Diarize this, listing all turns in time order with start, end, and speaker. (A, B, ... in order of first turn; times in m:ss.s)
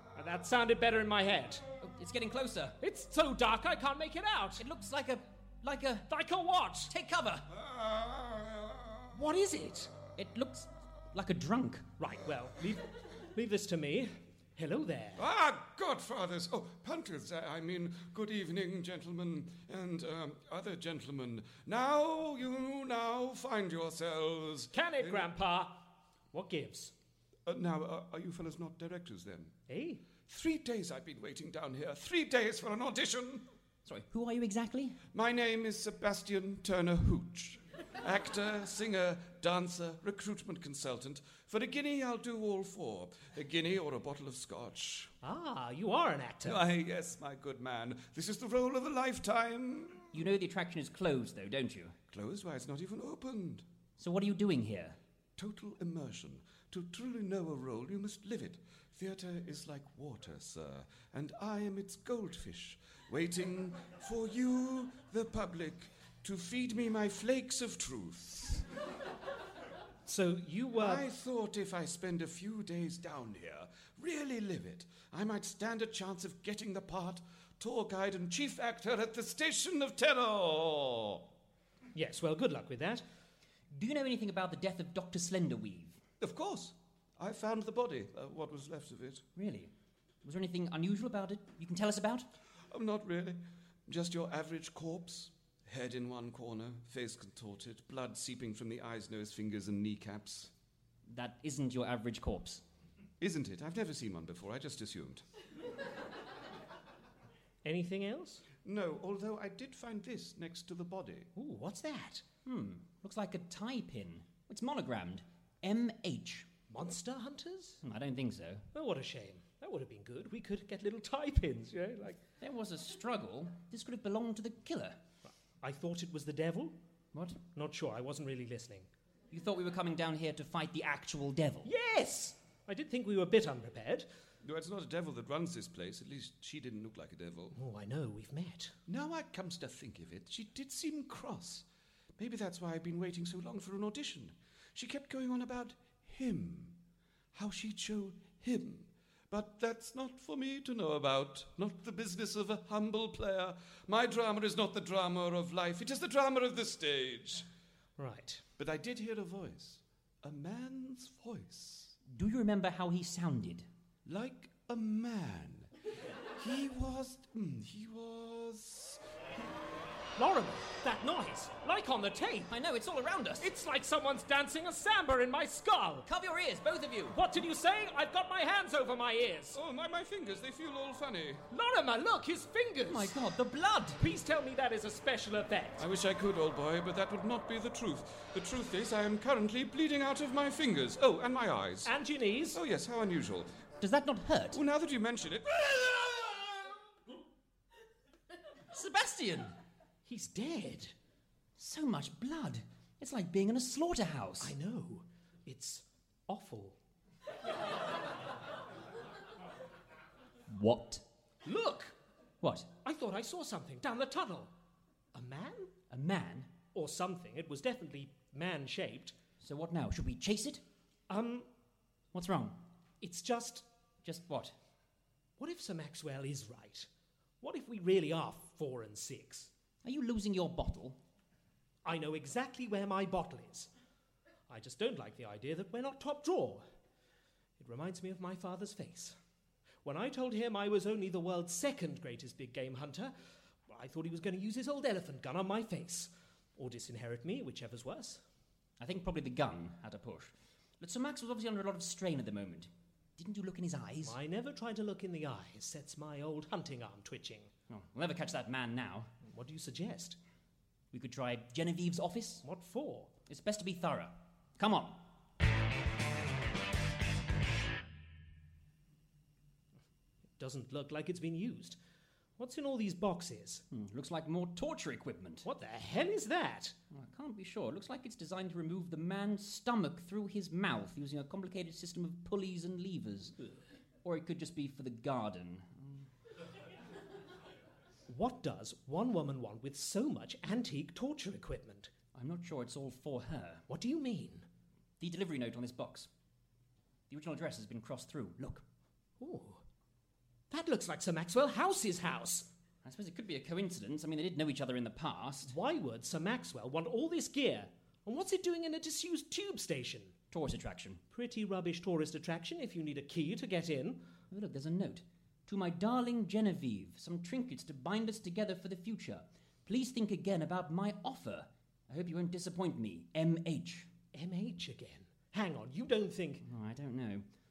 0:00.2-0:01.6 A
0:01.8-0:02.8 B
0:02.8-0:04.6 A
0:04.6-0:06.1 B
0:06.1-0:06.9 A
0:06.9-0:07.5 B
0:07.5-0:09.0 C
0:09.1-0:09.9 A
0:10.2-0:11.9 B
0:12.0-0:15.2 A
0:15.2-0:25.3 C
0:24.7-0:26.9 A
0:27.4-0:29.6 C
0:29.7-0:30.0 A
0:30.2-0:33.4 C
0:33.8-0:35.0 B
0:35.1-0:45.1 C
0:45.2-0:46.7 A
0:46.4-0:50.1 C
0:50.1-0:51.9 B
0:52.1-0:53.6 C
0:54.0-0:55.0 B
0:55.4-1:08.6 C
1:10.0-1:11.1 A
1:10.8-1:21.2 C
1:21.9-1:23.0 A
1:23.7-1:26.0 B
1:26.2-1:29.2 C
1:29.4-1:29.7 B
1:30.2-1:32.3 B
1:32.7-1:40.5 C
1:41.1-1:42.6 B
1:43.2-1:45.2 C
1:47.6-1:48.4 A
1:48.6-1:51.3 C
1:51.3-1:52.2 A
1:52.4-1:56.5 B
1:56.7-1:57.8 A
1:57.8-1:58.7 B
1:58.7-2:02.2 A
2:02.4-2:05.0 B
2:05.2-2:06.8 A
2:07.1-2:07.4 B
2:07.5-2:08.9 A
2:09.3-2:11.7 B
2:11.6-2:14.1 A
2:14.4-2:17.6 C
2:17.6-2:18.7 A
2:18.9-2:21.6 C
2:22.2-2:26.8 C
2:27.3-2:37.5 C
2:38.0-2:38.4 A
2:38.6-2:42.0 C
2:42.1-2:43.7 B
2:44.0-2:45.7 C
2:46.4-2:49.0 C
2:50.2-2:52.5 A
2:52.5-2:53.5 B
2:53.4-2:56.0 A
2:56.0-2:57.2 B
2:57.1-2:59.6 A
2:59.5-3:01.4 C
3:01.5-3:03.1 A
3:02.9-3:04.0 B
3:04.0-3:05.8 A
3:05.8-3:11.9 C
3:11.8-3:12.6 A
3:12.5-3:13.5 C
3:13.8-3:14.6 B
3:14.5-3:16.7 C
3:18.7-3:19.5 B
3:20.0-3:20.9 A
3:21.6-3:24.5 B
3:24.4-3:26.8 A
3:30.5-3:31.0 B
3:31.4-3:31.9 A
3:32.4-3:32.7 B
3:32.8-3:34.5 A
3:35.1-3:35.7 A
3:35.9-3:36.5 B
3:36.7-3:39.2 A
3:39.4-3:40.6 B
3:41.1-3:41.5 A
3:42.1-3:42.6 B
3:43.0-3:43.6 A
3:44.0-3:44.5 B
3:45.4-3:46.9 A
3:47.4-3:49.5 A
3:49.8-3:51.0 B
3:51.8-3:53.7 A
3:54.5-3:56.6 A
3:57.6-3:59.2 A
3:59.8-4:03.1 A
4:03.7-4:08.2 A
4:08.8-4:14.2 B
4:14.0-4:17.5 A
4:17.7-4:19.1 B
4:19.2-4:20.2 A
4:20.9-4:22.4 B
4:22.4-4:23.1 A
4:23.3-4:25.0 B
4:30.4-4:31.8 A
4:32.4-4:33.6 A
4:33.7-4:35.5 B
4:35.4-4:36.7 A
4:36.9-4:43.4 B
4:44.0-4:46.1 B
4:48.1-4:51.9 A
4:52.1-4:53.6 B
4:53.7-4:54.4 A
4:55.0-4:56.1 B
4:57.1-4:58.6 B
4:59.2-4:59.6 A
5:00.5-5:02.5 A
5:02.8-5:05.5 B
5:05.5-5:10.1 A
5:10.3-5:11.0 B
5:11.1-5:14.0 A
5:14.3-5:23.9 B
5:24.1-5:26.4 A
5:26.4-5:27.2 B